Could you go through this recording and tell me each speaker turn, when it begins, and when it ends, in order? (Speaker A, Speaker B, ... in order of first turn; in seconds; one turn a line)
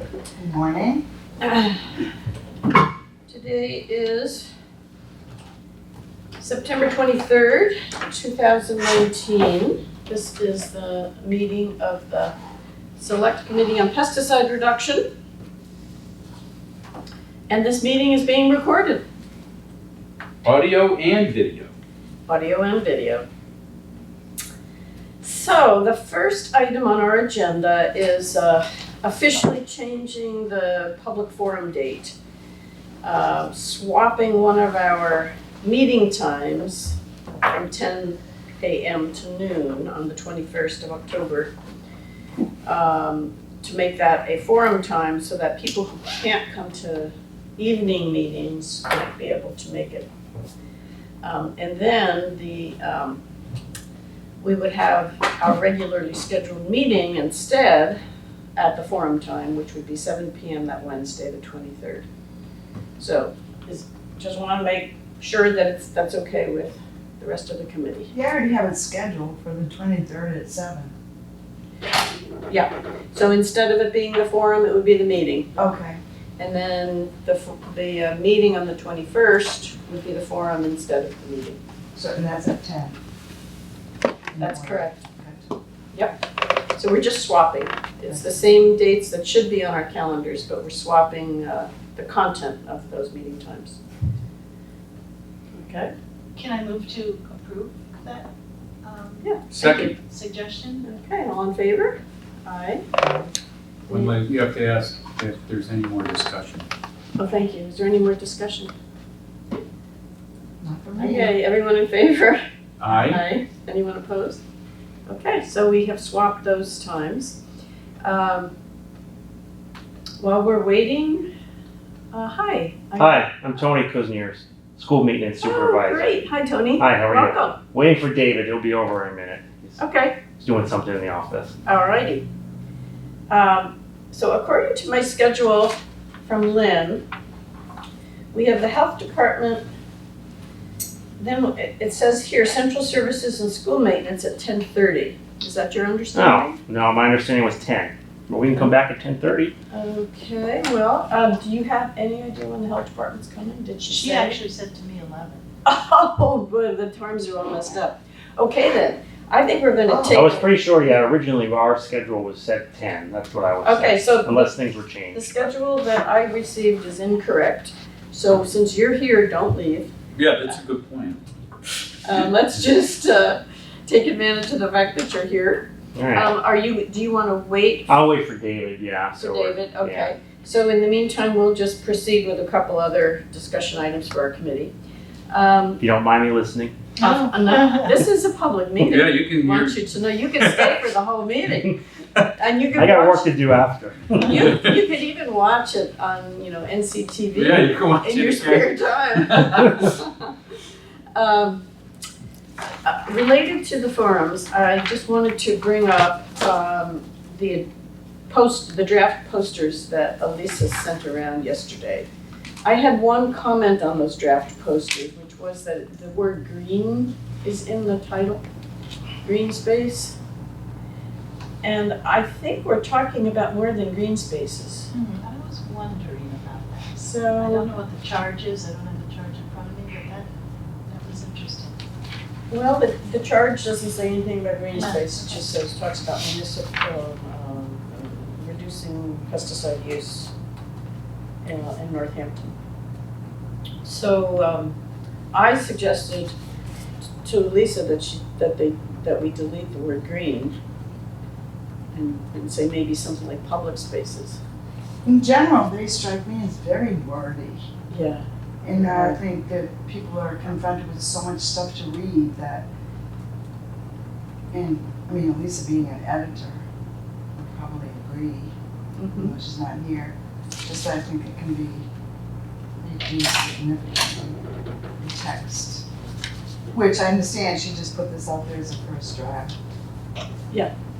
Speaker A: 0.3-1.0
Speaker B: 1.4-1.9
Speaker B: 3.3-4.5
Speaker B: 6.4-12.3
Speaker B: 13.0-15.1
Speaker B: 17.5-19.0
Speaker C: 20.4-21.7
Speaker B: 22.3-23.2
Speaker B: 25.2-32.1
Speaker B: 33.0-37.0
Speaker B: 37.5-41.5
Speaker B: 42.6-50.1
Speaker B: 51.2-53.2
Speaker B: 54.4-58.0
Speaker B: 58.5-62.0
Speaker B: 63.0-68.1
Speaker A: 68.1-70.9
Speaker B: 72.5-75.5
Speaker A: 75.5-76.0
Speaker B: 76.4-81.6
Speaker A: 81.9-83.0
Speaker A: 84.3-85.5
Speaker B: 84.4-85.0
Speaker B: 86.8-93.8
Speaker B: 95.5-95.9
Speaker D: 96.3-98.3
Speaker D: 98.8-99.4
Speaker B: 99.2-99.9
Speaker C: 99.5-100.0
Speaker D: 100.0-100.8
Speaker B: 100.8-102.8
Speaker A: 103.0-103.3
Speaker C: 103.9-106.7
Speaker B: 103.9-104.2
Speaker B: 107.2-108.7
Speaker A: 110.6-111.3
Speaker B: 111.0-112.4
Speaker C: 112.8-113.2
Speaker B: 112.9-114.4
Speaker B: 115.1-117.4
Speaker B: 118.0-118.5
Speaker B: 120.2-121.3
Speaker B: 122.1-123.3
Speaker E: 123.0-126.1
Speaker B: 125.4-127.6
Speaker E: 126.8-129.8
Speaker B: 129.8-130.2
Speaker E: 130.3-131.5
Speaker B: 131.6-132.2
Speaker B: 133.3-137.0
Speaker B: 138.3-139.6
Speaker B: 141.2-146.6
Speaker E: 146.1-149.5
Speaker B: 149.7-154.4
Speaker D: 153.9-155.4
Speaker B: 155.6-160.5
Speaker A: 159.9-160.2
Speaker E: 160.1-165.2
Speaker B: 163.6-164.5
Speaker B: 165.1-169.9
Speaker C: 170.1-171.2
Speaker B: 172.0-177.9
Speaker E: 175.9-176.3
Speaker E: 177.9-180.1
Speaker B: 179.1-184.7
Speaker B: 185.3-185.8
Speaker E: 185.8-186.8
Speaker B: 187.0-191.8
Speaker D: 187.0-187.9
Speaker C: 188.8-189.8
Speaker C: 190.4-190.8
Speaker B: 192.3-193.3
Speaker E: 192.8-194.4
Speaker B: 194.2-200.1
Speaker C: 197.3-199.6
Speaker B: 201.2-201.6
Speaker B: 202.8-207.6
Speaker B: 208.3-212.1
Speaker B: 212.6-218.4
Speaker B: 219.2-220.1
Speaker B: 221.6-224.9
Speaker D: 224.9-230.3
Speaker B: 226.9-227.7
Speaker D: 230.9-231.8
Speaker B: 232.5-240.3
Speaker D: 234.7-235.4
Speaker B: 241.4-242.5
Speaker B: 243.8-244.8
Speaker B: 245.3-246.3
Speaker B: 247.2-250.6
Speaker B: 251.9-254.4
Speaker A: 255.0-257.7
Speaker B: 257.9-258.2
Speaker A: 258.6-262.6
Speaker B: 258.8-259.2
Speaker A: 264.5-266.6
Speaker A: 267.4-268.5
Speaker B: 269.0-269.3
Speaker A: 269.1-271.9
Speaker A: 272.8-274.4
Speaker A: 275.0-275.9
Speaker A: 276.7-279.5